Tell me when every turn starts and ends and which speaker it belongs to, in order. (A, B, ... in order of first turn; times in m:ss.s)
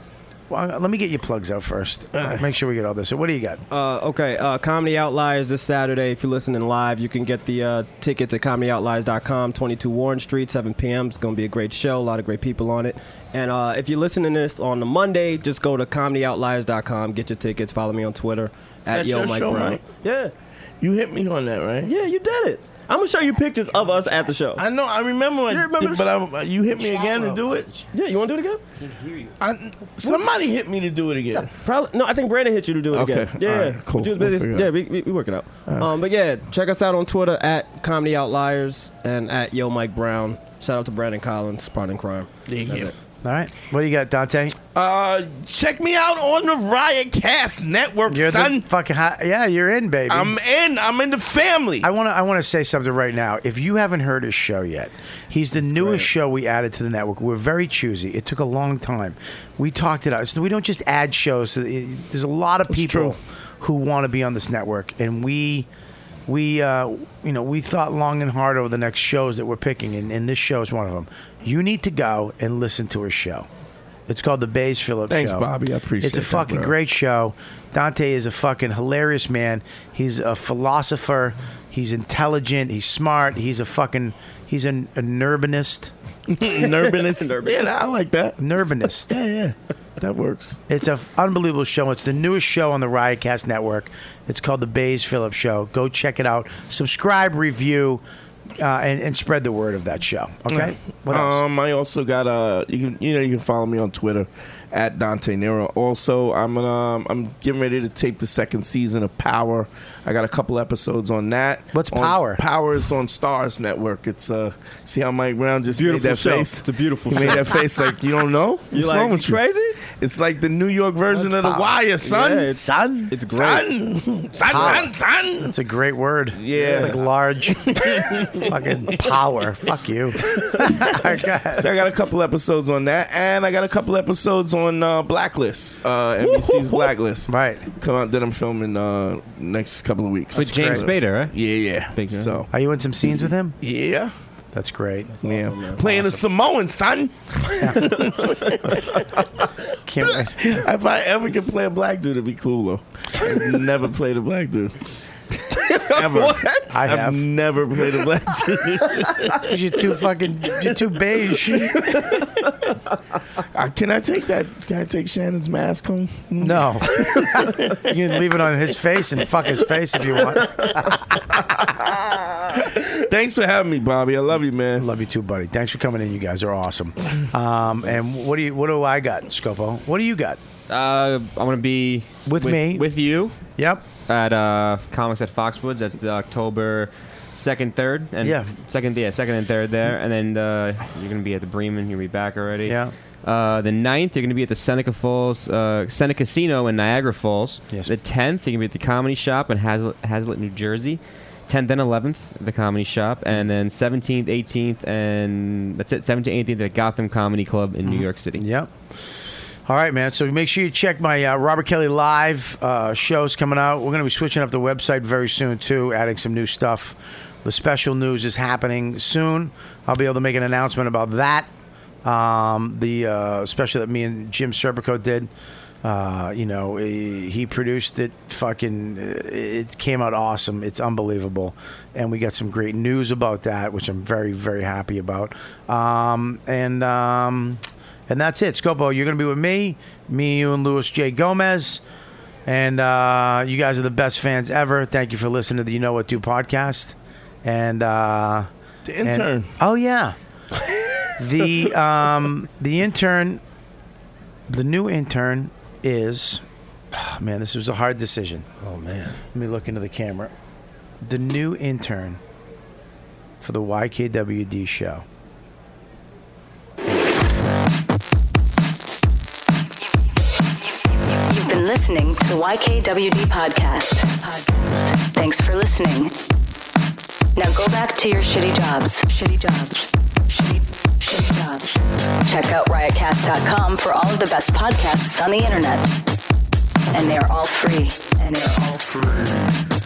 0:00.5-0:03.6 A
0:02.2-0:02.4 B
0:03.7-0:20.3 C
0:18.9-0:19.8 B
0:20.8-0:21.9 B
0:21.8-0:24.6 C
0:24.6-0:27.7 B
0:25.5-0:26.1 C
0:26.9-0:27.8 D
0:27.9-0:28.6 C
0:28.8-0:29.3 D
0:29.4-0:31.5 B
0:30.0-0:30.3 C
0:31.4-0:42.9 C
0:32.9-0:34.7 B
0:35.7-0:36.0 B
0:42.5-0:42.9 B
0:43.2-0:44.6 A
0:44.7-0:48.6 B
0:48.1-0:50.4 A
0:50.1-0:51.9 B
0:51.8-1:05.7 A
0:55.7-0:56.1 C
1:02.7-1:03.2 B
1:06.3-1:13.5 A
1:14.1-1:15.5 A
1:15.1-1:16.7 B
1:16.0-1:25.9 A
1:26.3-1:28.4 B
1:26.4-1:27.7 C
1:28.4-1:29.1 A
1:29.0-1:30.6 B
1:30.7-1:38.0 A
1:38.6-1:41.4 A
1:40.5-2:02.5 B
1:51.7-1:52.4 A
1:55.7-1:57.8 C
1:58.7-1:59.8 C
2:01.1-2:01.8 A
2:02.0-2:03.7 C
2:02.5-2:03.1 A
2:03.3-2:05.5 B
2:04.4-2:11.7 A
2:04.5-2:04.8 C
2:06.4-2:09.1 B
2:06.5-2:06.9 C
2:10.3-2:10.9 B
2:11.5-2:22.5 B
2:17.3-2:17.6 A
2:20.3-2:21.3 D
2:20.5-2:20.8 A
2:21.8-2:22.4 D
2:22.5-2:23.6 A
2:23.2-2:24.1 B
2:24.5-2:25.1 A
2:25.2-2:26.1 C
2:25.2-2:29.0 B
2:27.6-2:28.1 A
2:29.8-2:30.6 A
2:30.4-2:34.8 B
2:35.7-2:39.4 B
2:35.7-2:36.6 C
2:36.7-2:37.2 A
2:39.4-2:41.8 A
2:43.5-2:47.8 B
2:46.4-2:51.0 A
2:52.6-2:54.9 B
2:54.8-3:00.4 A
3:00.7-3:03.3 D
3:02.2-3:02.9 A
3:03.6-3:03.8 A
3:04.1-3:28.4 D
3:08.2-3:08.5 A
3:12.7-3:12.9 A
3:27.8-3:28.7 A
3:29.7-3:41.5 A
3:42.0-3:45.3 A
3:45.8-4:01.8 A
4:02.4-4:08.5 A
4:08.8-4:09.5 B
4:09.0-4:10.2 A
4:11.2-4:13.4 A
4:14.5-4:18.5 A
4:18.6-4:19.2 C
4:19.3-4:20.3 A
4:21.0-4:22.2 A
4:23.4-4:25.0 A
4:30.6-4:36.1 E
4:37.4-4:45.9 E
4:46.9-4:49.4 E